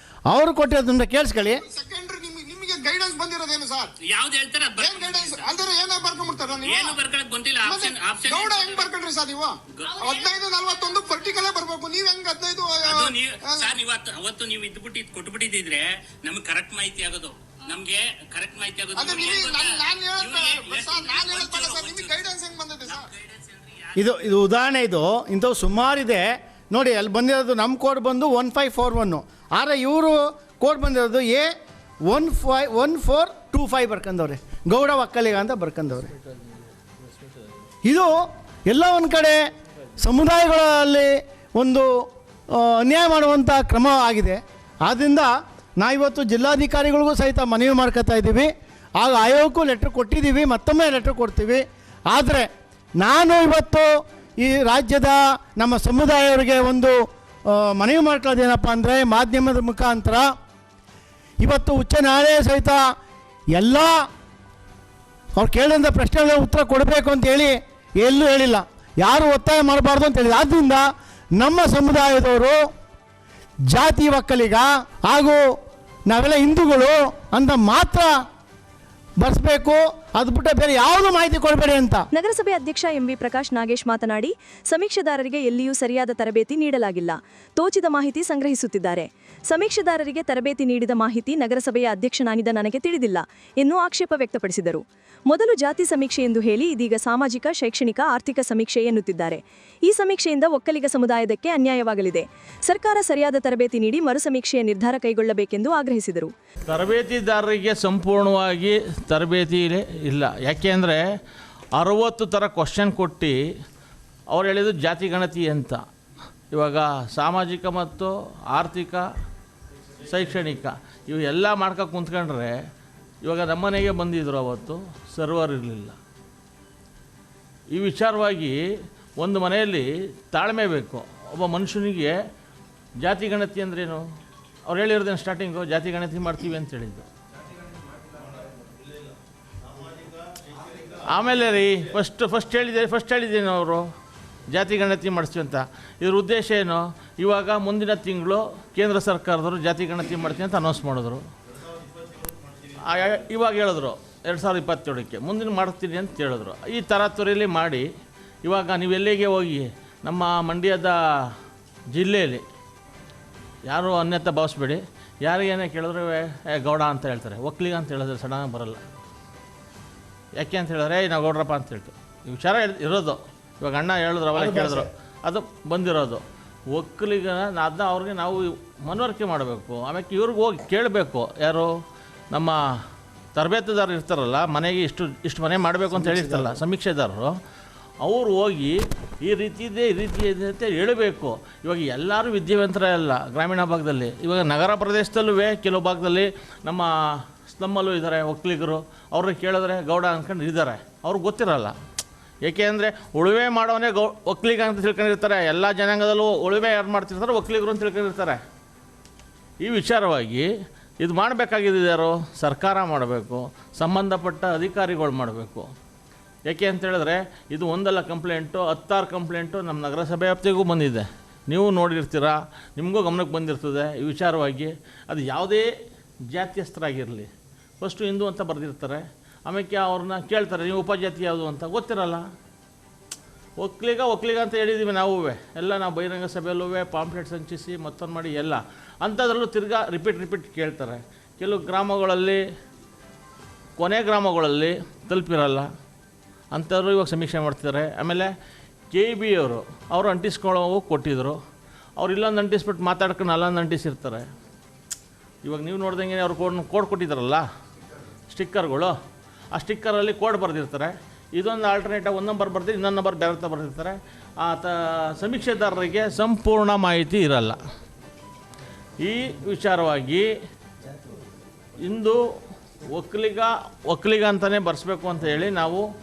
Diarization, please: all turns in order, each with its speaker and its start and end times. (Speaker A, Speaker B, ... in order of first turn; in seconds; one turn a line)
Speaker A: 0.3-1.6
Speaker B: 1.4-3.9
Speaker C: 4.0-5.5
Speaker B: 4.8-7.0
Speaker C: 6.7-8.9
Speaker B: 7.6-13.8
Speaker C: 9.9-10.2
Speaker C: 12.9-22.2
Speaker B: 18.9-23.1
Speaker C: 22.9-23.9
Speaker A: 23.9-31.5
Speaker A: 32.0-36.1
Speaker A: 37.8-38.1
Speaker A: 38.7-39.4
Speaker A: 40.0-41.9
Speaker A: 42.5-52.5
Speaker A: 53.0-53.9
Speaker A: 54.4-57.0
Speaker A: 57.5-60.3
Speaker A: 61.4-62.8
Speaker A: 63.5-64.0
Speaker A: 65.3-70.8
Speaker A: 71.4-72.6
Speaker A: 73.7-75.4
Speaker A: 76.1-78.1
Speaker A: 79.2-82.0
Speaker D: 82.1-106.3
Speaker E: 106.7-111.0
Speaker E: 111.8-113.3
Speaker E: 114.3-115.8
Speaker E: 116.5-119.0
Speaker E: 120.0-122.5
Speaker E: 123.2-126.0
Speaker E: 127.7-128.6
Speaker E: 129.2-132.2
Speaker E: 133.0-134.0
Speaker E: 134.7-137.1
Speaker E: 141.1-143.9
Speaker E: 144.5-151.2
Speaker E: 152.8-157.8
Speaker E: 158.4-161.3
Speaker E: 161.9-162.4
Speaker E: 163.7-168.8
Speaker E: 170.4-181.7
Speaker E: 182.3-182.6
Speaker E: 183.3-187.3
Speaker E: 188.0-201.8
Speaker E: 202.4-208.4
Speaker E: 209.6-210.5
Speaker E: 211.0-215.7
Speaker E: 216.5-225.7
Speaker E: 226.3-227.3
Speaker E: 227.8-232.2
Speaker E: 233.6-242.4
Speaker E: 243.8-245.7
Speaker E: 246.5-248.3
Speaker E: 248.9-251.4
Speaker E: 252.0-254.3
Speaker E: 255.4-257.4
Speaker E: 258.3-258.9
Speaker E: 259.5-267.6
Speaker E: 269.0-270.3
Speaker E: 271.8-272.2
Speaker E: 272.9-275.9